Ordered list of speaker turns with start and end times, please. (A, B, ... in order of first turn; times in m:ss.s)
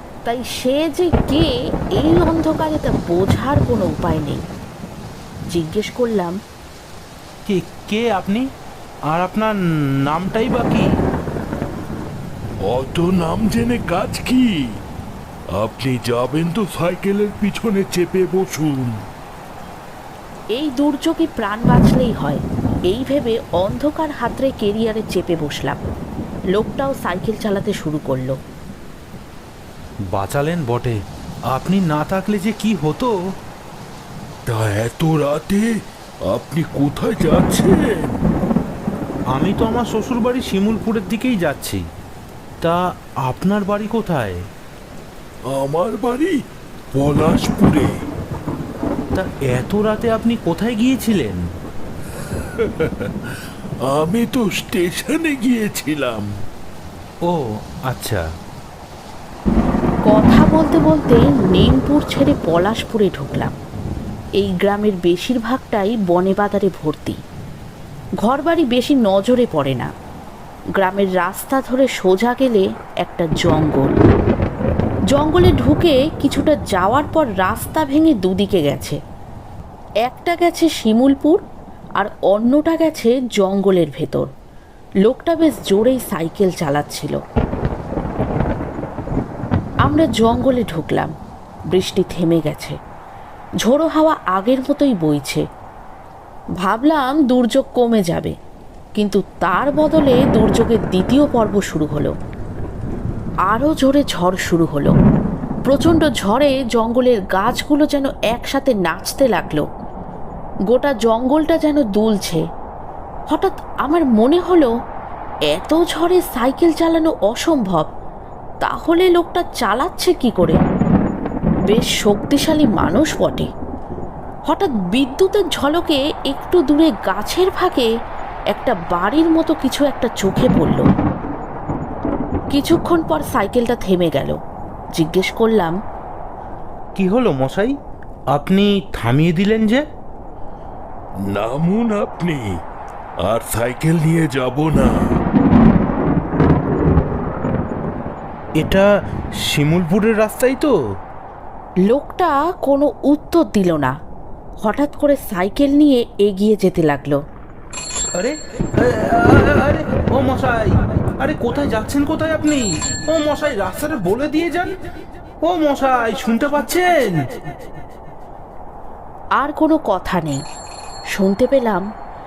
0:00.2-0:04.4 A
0:05.5-0:06.4 A
0:07.5-0:08.5 B
0:09.1-0:10.9 B
0:12.6-0:14.8 C
0:15.5-0:19.0 C
0:20.6-0:25.9 A
0:26.5-0:28.4 A
0:30.1-0:31.0 B
0:31.5-0:33.2 B
0:34.5-0:35.7 C
0:36.3-0:38.2 C
0:39.3-0:41.9 B
0:42.6-0:44.5 B
0:45.5-0:46.4 C
0:46.9-0:47.9 C
0:49.1-0:51.5 B
0:52.3-0:53.3 C
0:53.9-0:56.3 C
0:57.2-0:58.3 B
1:00.1-1:03.6 A
1:04.4-1:07.2 A
1:08.2-1:09.9 A
1:10.8-1:14.0 A
1:15.1-1:19.0 A
1:20.0-1:21.4 A
1:22.0-1:24.3 A
1:25.0-1:27.2 A
1:29.8-1:31.1 A
1:31.7-1:32.8 A
1:33.6-1:35.4 A
1:36.6-1:38.3 A
1:39.0-1:42.1 A
1:43.5-1:44.9 A
1:45.7-1:49.6 A
1:50.7-1:52.4 A
1:53.3-1:54.7 A
1:55.5-1:57.9 A
1:58.6-2:00.6 A
2:01.7-2:03.5 A
2:04.5-2:07.9 A
2:08.5-2:10.8 A
2:12.5-2:14.4 A
2:15.0-2:15.8 A
2:17.0-2:17.8 B
2:18.3-2:19.8 B
2:21.3-2:22.5 C
2:23.2-2:25.0 C
2:28.6-2:28.9 B
2:29.4-2:30.8 B
2:31.9-2:33.9 A
2:34.6-2:37.2 A
2:38.1-2:44.8 B
2:45.4-2:47.3 B
2:49.4-2:50.4 A
2:51.2-2:51.8 A